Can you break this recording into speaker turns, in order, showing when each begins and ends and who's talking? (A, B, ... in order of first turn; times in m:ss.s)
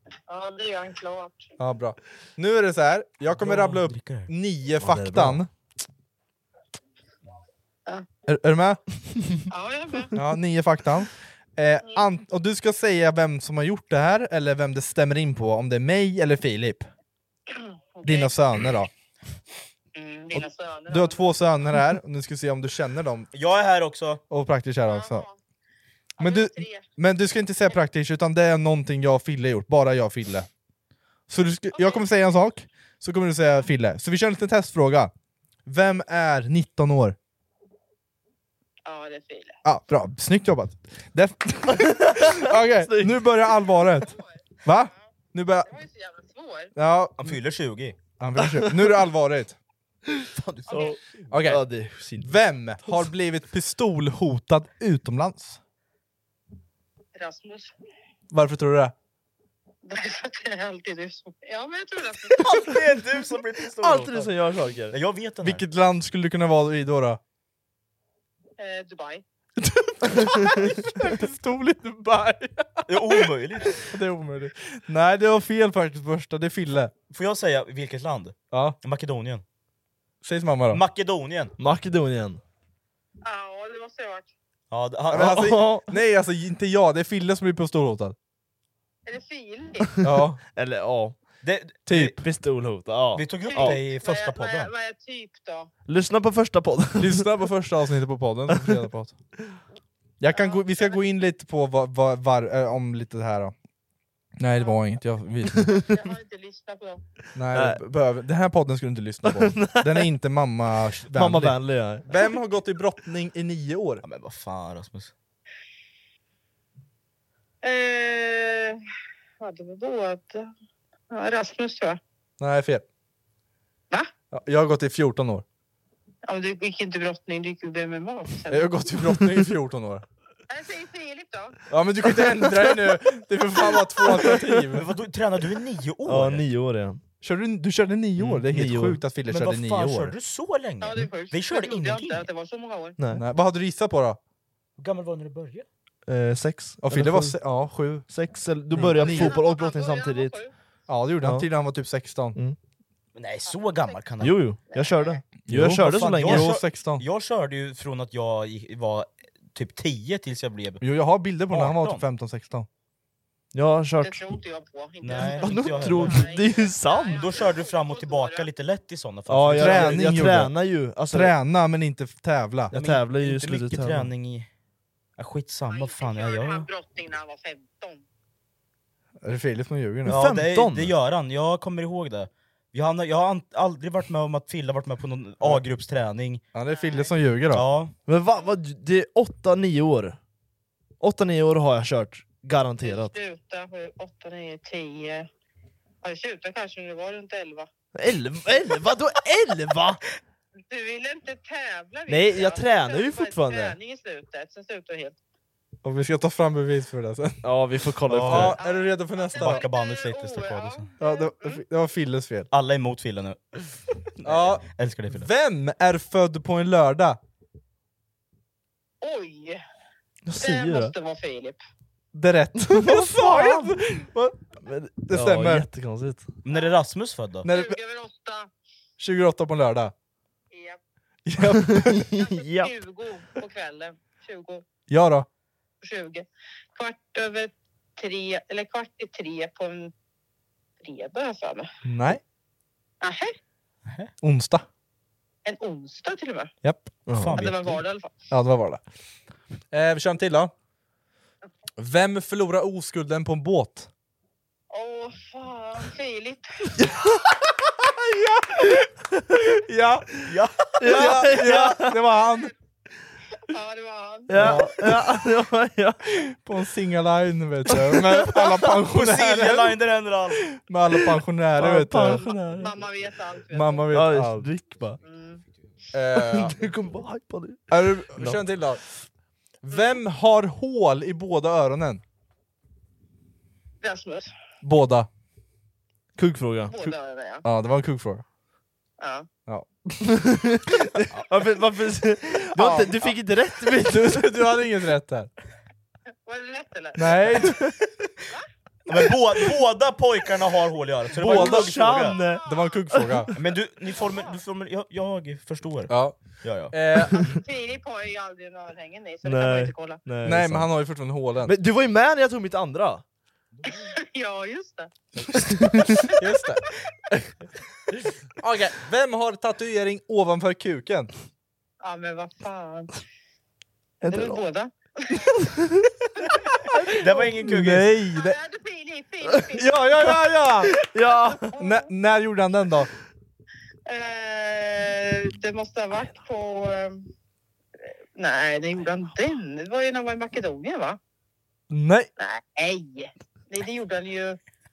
0:00.3-0:01.5 A
0:01.6-0:05.5 B
0:03.4-0:04.3 C
0:04.8-0:05.4 D
0:08.3-0:08.8 B
0:09.5-0:10.2 A
0:10.2-0:16.9 B
0:17.5-0:18.4 A
0:18.0-0:18.9 B
0:19.9-0:21.5 A
0:20.9-0:23.3 B
0:23.3-0:24.2 C
0:24.3-0:25.3 B
0:24.8-0:25.4 A
0:26.2-0:26.9 A
0:26.2-0:30.5 B
0:31.3-0:35.1 B
0:31.7-0:32.1 A
0:35.7-0:37.2 B
0:38.8-0:39.6 A
0:39.6-0:45.7 B
0:41.7-0:43.2 D
0:44.1-0:44.7 A
0:45.7-0:46.7 A
0:46.8-0:47.4 B
0:47.2-0:48.0 C
0:48.2-0:49.6 B
0:50.2-0:52.3 D
0:50.4-0:51.3 C
0:50.7-0:51.0 A
0:51.3-0:51.7 B
0:52.2-0:55.6 B
0:57.2-0:57.7 A
0:58.3-0:58.9 B
0:59.8-1:02.7 A
1:02.4-1:04.3 C
1:03.8-1:05.0 D
1:04.9-1:05.6 C
1:05.4-1:07.2 B
1:08.6-1:09.2 A
1:09.6-1:16.9 B
1:12.9-1:13.8 C
1:17.1-1:19.4 C
1:18.5-1:18.8 B
1:20.2-1:20.8 B
1:20.7-1:21.5 C
1:21.6-1:22.4 D
1:23.2-1:24.3 A
1:24.7-1:25.6 C
1:25.1-1:28.2 B
1:25.1-1:25.9 D
1:29.1-1:30.0 A
1:30.0-1:30.4 B
1:30.5-1:31.2 D
1:31.4-1:32.2 C
1:31.9-1:32.2 B
1:31.9-1:33.8 D
1:33.1-1:34.7 C
1:33.4-1:35.7 A
1:35.9-1:37.2 D
1:37.0-1:39.2 B
1:40.2-1:43.5 B
1:40.3-1:41.1 A
1:44.4-1:45.9 B
1:44.6-1:45.0 A
1:45.9-1:47.0 A
1:47.4-1:54.0 B
1:47.5-1:47.8 D
1:49.3-1:50.1 D
1:51.1-1:52.1 D
1:54.0-1:55.1 C
1:57.6-1:58.8 A
1:59.4-2:00.5 A
2:01.1-2:02.0 A
2:02.4-2:02.8 B
2:04.3-2:05.4 B
2:06.3-2:08.7 A
2:08.5-2:10.0 B
2:10.5-2:11.6 A
2:11.7-2:14.9 B
2:14.7-2:16.5 C
2:16.1-2:17.0 D
2:17.2-2:20.2 B
2:18.2-2:19.0 D
2:19.3-2:22.2 C
2:20.8-2:23.0 A
2:23.0-2:23.2 D
2:23.1-2:24.2 B
2:24.8-2:25.7 C
2:26.1-2:27.4 D
2:26.8-2:28.1 B
2:28.1-2:30.4 D
2:28.7-2:29.4 B
2:29.0-2:30.5 A
2:30.9-2:32.4 B
2:31.2-2:31.5 D
2:33.2-2:34.4 C
2:33.5-2:34.0 A
2:34.2-2:36.5 D
2:34.6-2:35.2 A
2:35.5-2:37.0 B
2:35.8-2:40.8 C
2:40.8-2:42.7 B
2:41.5-2:42.0 C
2:43.5-2:44.2 D
2:44.0-2:48.5 A
2:45.0-2:46.3 C
2:45.2-2:47.2 D
2:47.2-2:50.0 C
2:49.3-2:51.3 D
2:49.6-2:52.7 B
2:52.7-2:54.1 D
2:52.7-2:54.5 C
2:55.2-2:56.7 C
2:55.7-2:58.0 A
2:59.2-3:00.3 B
3:00.1-3:00.9 D
3:00.1-3:06.4 C
3:06.6-3:07.7 B
3:06.6-3:07.2 A
3:07.5-3:07.9 C
3:08.1-3:10.2 D
3:11.0-3:13.1 D
3:12.8-3:15.3 A
3:16.0-3:17.7 A
3:18.0-3:20.0 D
3:20.7-3:25.2 A
3:22.1-3:23.8 D
3:25.8-3:27.5 B
3:27.4-3:28.6 D
3:28.1-3:28.6 C
3:28.2-3:29.7 B
3:28.5-3:31.6 A
3:29.4-3:30.9 C
3:31.0-3:32.5 B
3:32.5-3:35.3 C
3:34.2-3:37.2 B
3:39.0-3:39.6 A
3:40.3-3:40.9 D
3:40.4-3:41.6 A
3:42.1-3:44.1 B
3:42.8-3:46.3 D
3:45.1-3:45.7 B
3:46.4-3:47.5 C
3:47.4-3:47.8 B
3:47.4-3:48.5 A
3:49.0-3:49.9 B
3:50.5-3:50.8 A
3:51.3-3:52.1 B
3:51.6-3:52.7 D
3:52.2-3:54.6 A
3:54.9-3:55.3 B
3:55.8-3:59.9 A
4:00.8-4:01.7 A
4:01.8-4:02.2 B
4:03.0-4:03.4 A
4:04.2-4:04.7 B
4:05.4-4:06.5 A
4:06.6-4:07.5 B
4:07.1-4:07.4 D
4:07.2-4:07.8 C
4:07.4-4:08.2 A
4:08.3-4:08.8 B
4:09.7-4:10.5 B
4:11.8-4:13.9 B
4:14.7-4:16.7 A
4:16.8-4:17.3 D
4:17.9-4:18.8 B
4:19.4-4:20.2 B
4:20.3-4:21.7 C
4:20.8-4:22.0 D
4:20.8-4:22.5 B
4:22.0-4:22.5 A
4:23.5-4:24.6 A
4:24.3-4:26.0 D
4:24.4-4:25.1 B
4:26.2-4:29.8 B
4:27.7-4:28.0 D
4:28.4-4:30.5 C
4:30.5-4:32.3 B
4:31.6-4:32.8 D
4:32.0-4:34.0 A
4:33.5-4:34.5 B
4:33.9-4:35.0 D
4:35.0-4:35.4 A
4:35.9-4:36.6 B
4:36.2-4:38.4 D
4:37.7-4:38.8 B
4:39.6-4:42.0 B
4:39.7-4:40.0 A
4:43.8-4:44.3 A
4:44.6-4:45.1 B
4:46.2-4:46.9 D
4:46.7-4:47.4 A
4:47.4-4:48.2 B
4:49.0-4:49.3 A
4:49.5-4:49.9 B
4:50.0-4:54.4 D
4:52.6-4:53.2 C
4:52.6-4:52.9 B
4:53.8-4:55.3 B
4:56.2-4:57.6 A
4:57.0-4:57.7 B
4:58.9-5:02.2 C
5:01.2-5:03.3 B
5:01.2-5:03.3 D
5:02.0-5:02.9 A
5:03.4-5:07.4 C
5:03.9-5:04.4 A
5:05.9-5:07.3 B
5:07.3-5:10.0 A
5:09.2-5:10.7 D
5:10.2-5:11.6 B
5:11.5-5:13.0 D
5:13.6-5:13.8 C
5:13.6-5:15.0 A
5:15.4-5:16.0 D
5:16.0-5:16.6 B
5:18.4-5:21.1 B
5:21.8-5:23.0 A
5:24.0-5:24.4 D
5:24.1-5:25.3 A
5:25.3-5:25.9 D
5:26.8-5:28.3 D
5:27.0-5:27.9 C
5:27.6-5:28.3 B
5:28.1-5:30.2 A
5:29.6-5:30.8 B
5:30.7-5:31.5 D
5:31.1-5:31.9 A
5:31.5-5:32.9 B
5:33.9-5:37.1 A
5:38.2-5:41.0 A
5:41.7-5:42.1 B
5:42.2-5:44.4 A